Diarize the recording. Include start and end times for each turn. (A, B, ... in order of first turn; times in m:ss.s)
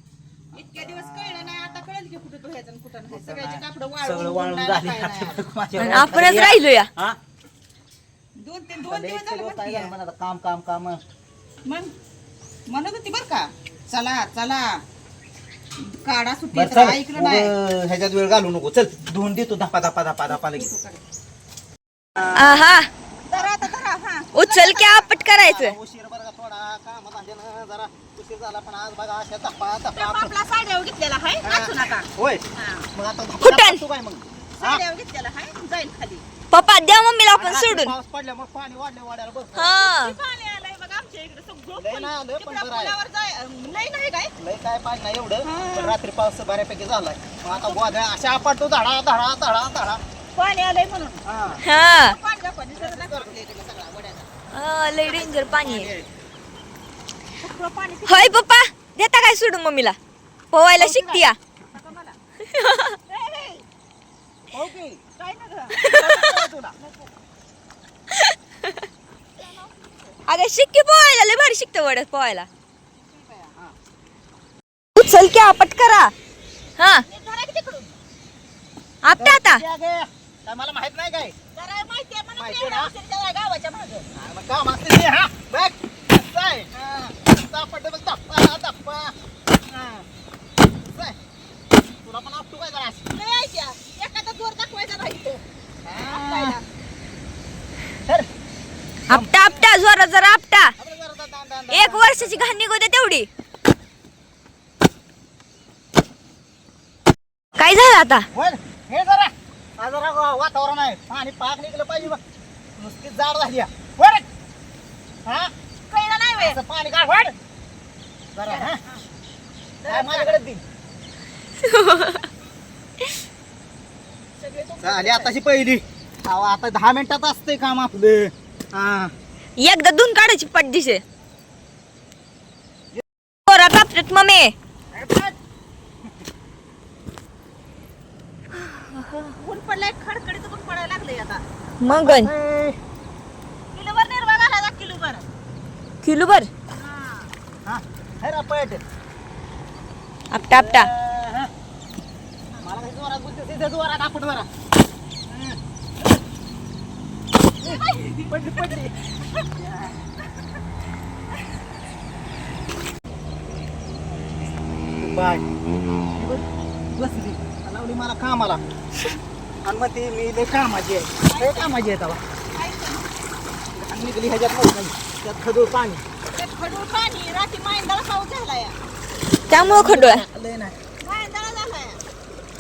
0:00.5-0:01.9 A
0:00.5-0:05.4 B
0:03.1-0:07.2 A
0:05.8-0:06.9 C
0:08.4-0:10.0 B
0:08.8-0:11.1 A
0:11.6-0:11.9 B
0:12.7-0:14.8 B
0:15.8-0:17.5 B
0:16.5-0:20.7 A
0:20.3-0:21.0 B
0:22.2-0:22.6 A
0:22.2-0:22.9 C
0:23.3-0:25.1 B
0:24.3-0:25.8 C
0:25.1-0:30.3 A
0:29.9-0:32.9 B
0:31.4-0:34.8 A
0:33.4-0:33.8 C
0:34.5-0:36.2 B
0:36.5-0:37.9 C
0:37.4-0:39.8 A
0:39.5-0:40.2 C
0:39.7-0:44.3 B
0:41.8-0:43.0 A
0:44.4-0:50.0 A
0:45.4-0:46.0 B
0:47.4-0:48.0 B
0:50.3-0:51.2 B
0:51.2-0:51.6 A
0:51.6-0:52.2 C
0:51.8-0:54.3 B
0:52.7-0:53.3 A
0:54.5-0:55.9 C
0:55.0-0:55.4 B
0:55.5-0:56.1 A
0:57.4-0:58.5 B
0:58.1-1:00.0 C
1:00.5-1:01.4 C
1:00.8-1:01.2 B
1:00.9-1:01.3 A
1:01.7-1:02.2 B
1:02.5-1:03.0 C
1:03.1-1:03.6 B
1:04.5-1:05.0 A
1:05.2-1:07.1 B
1:05.8-1:06.4 C
1:05.8-1:06.8 A
1:08.1-1:08.7 C
1:09.4-1:10.2 B
1:10.3-1:12.5 C
1:13.4-1:13.8 A
1:15.0-1:16.1 C
1:16.8-1:17.0 C
1:17.0-1:18.0 B
1:19.0-1:19.6 C
1:19.2-1:21.4 A
1:21.6-1:24.1 B
1:22.4-1:22.9 A
1:24.2-1:26.7 A
1:26.7-1:27.2 B
1:27.2-1:29.2 A
1:29.7-1:30.0 B
1:30.8-1:31.2 A
1:32.0-1:33.1 A
1:33.1-1:36.6 B
1:35.8-1:36.6 A
1:39.1-1:39.7 A
1:39.1-1:40.7 C
1:40.8-1:42.6 A
1:41.7-1:43.3 C
1:47.6-1:48.3 C
1:48.3-1:52.2 A
1:52.8-1:54.3 A
1:55.2-1:55.5 A
1:55.9-1:56.6 B
1:56.4-1:57.4 A
1:58.3-1:58.8 A
1:58.5-1:59.0 B
1:59.8-2:00.4 B
1:59.9-2:00.6 A
2:01.6-2:02.3 C
2:04.3-2:05.3 B
2:04.8-2:09.1 A
2:09.6-2:11.0 C
2:13.5-2:14.5 C
2:14.9-2:15.4 A
2:18.7-2:19.3 C
2:19.4-2:21.4 B
2:21.8-2:22.3 C
2:21.8-2:22.8 A
2:23.7-2:25.3 B
2:26.0-2:26.5 C
2:26.7-2:27.3 B
2:27.6-2:28.8 A
2:30.3-2:30.9 C
2:30.4-2:31.5 A
2:32.6-2:34.5 A
2:37.6-2:38.9 B
2:37.6-2:38.9 A
2:45.0-2:45.4 A
2:46.2-2:48.6 A
2:49.6-2:52.2 A
2:51.2-2:51.7 B
2:52.5-2:53.1 B
2:53.7-2:56.0 A
2:56.3-2:58.8 B
2:59.5-3:00.2 C
2:59.5-3:00.8 A
3:01.0-3:02.0 B